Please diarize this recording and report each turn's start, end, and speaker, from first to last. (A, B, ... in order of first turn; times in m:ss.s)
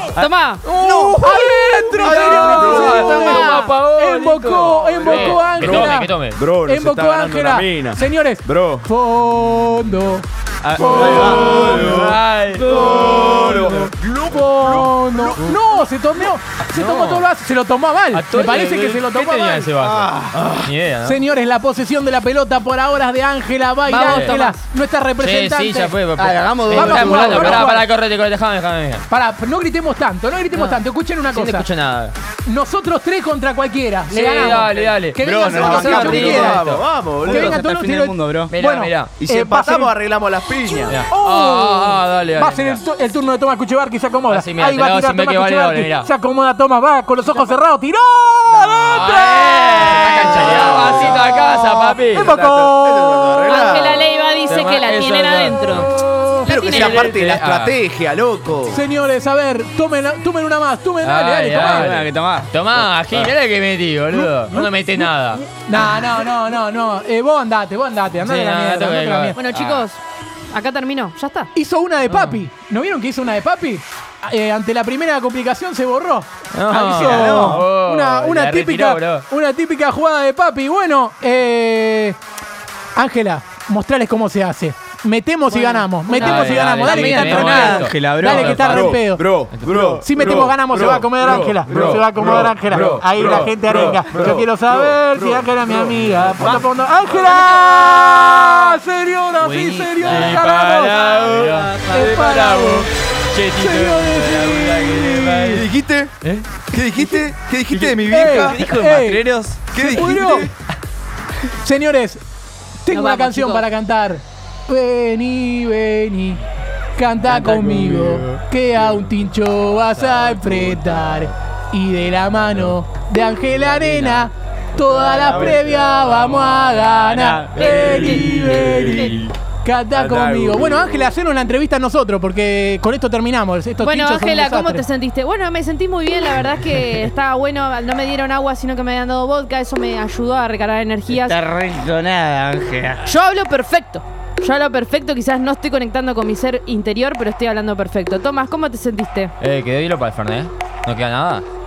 0:00.2-0:01.5 A
0:00.6-0:06.4 B
0:00.8-0:06.1 C
0:02.0-0:03.2 D
0:02.8-0:03.7 A
0:05.0-0:08.8 D
0:05.7-0:06.2 A
0:06.6-0:11.7 C
0:10.6-0:15.6 D
0:10.6-0:12.2 E
0:11.2-0:12.9 B
0:12.7-0:13.9 E
0:12.7-0:19.7 C
0:16.7-0:17.2 B
0:18.1-0:21.2 B
0:19.8-0:20.5 E
0:21.0-0:26.0 C
0:23.9-0:24.6 A
0:24.0-0:24.4 B
0:25.2-0:29.0 B
0:26.2-0:27.7 E
0:26.7-0:27.9 C
0:29.1-0:31.7 C
0:30.5-0:32.1 B
0:32.4-0:36.6 C
0:34.1-0:36.8 B
0:35.2-0:36.6 E
0:35.4-0:37.6 D
0:37.2-0:40.0 C
0:37.2-0:38.5 E
0:38.5-0:39.1 B
0:39.2-0:41.0 D
0:40.9-0:42.8 B
0:41.1-0:53.6 C
0:44.3-0:46.1 B
0:48.9-0:52.3 B
0:49.8-0:51.2 D
0:52.2-0:54.1 D
0:53.4-0:55.9 A
0:54.5-0:55.9 B
0:55.9-0:56.5 C
0:56.4-0:57.0 A
0:56.5-0:58.8 D
0:56.7-0:57.8 B
0:58.7-1:02.0 C
1:01.0-1:05.4 B
1:01.5-1:03.3 E
1:04.1-1:09.4 C
1:08.2-1:09.9 B
1:09.3-1:10.0 A
1:10.5-1:11.5 A
1:11.5-1:22.2 C
1:12.1-1:12.4 B
1:16.5-1:19.2 B
1:16.8-1:17.6 E
1:22.9-1:29.3 C
1:25.5-1:27.7 A
1:26.2-1:29.0 B
1:27.3-1:28.7 E
1:28.4-1:37.4 D
1:29.5-1:30.0 B
1:30.0-1:41.1 C
1:31.6-1:33.9 B
1:37.2-1:38.8 B
1:39.4-1:40.4 D
1:40.0-1:45.7 B
1:41.3-1:41.6 D
1:41.8-1:42.9 C
1:43.5-1:45.6 C
1:45.5-1:46.1 D
1:46.2-1:46.5 B
1:46.7-1:50.5 D
1:48.0-1:50.5 C
1:48.4-1:48.7 E
1:51.4-1:52.2 C
1:52.8-1:56.4 C
1:52.9-1:53.6 A
1:57.0-2:14.8 C
1:57.4-1:57.9 E
1:57.6-1:58.2 D
2:03.9-2:04.2 B
2:05.1-2:06.2 D
2:07.0-2:07.5 E
2:07.5-2:09.2 A
2:07.7-2:09.3 D
2:09.9-2:11.1 D
2:13.8-2:21.4 A
2:21.1-2:23.2 E
2:23.0-2:29.3 A
2:29.4-2:31.4 B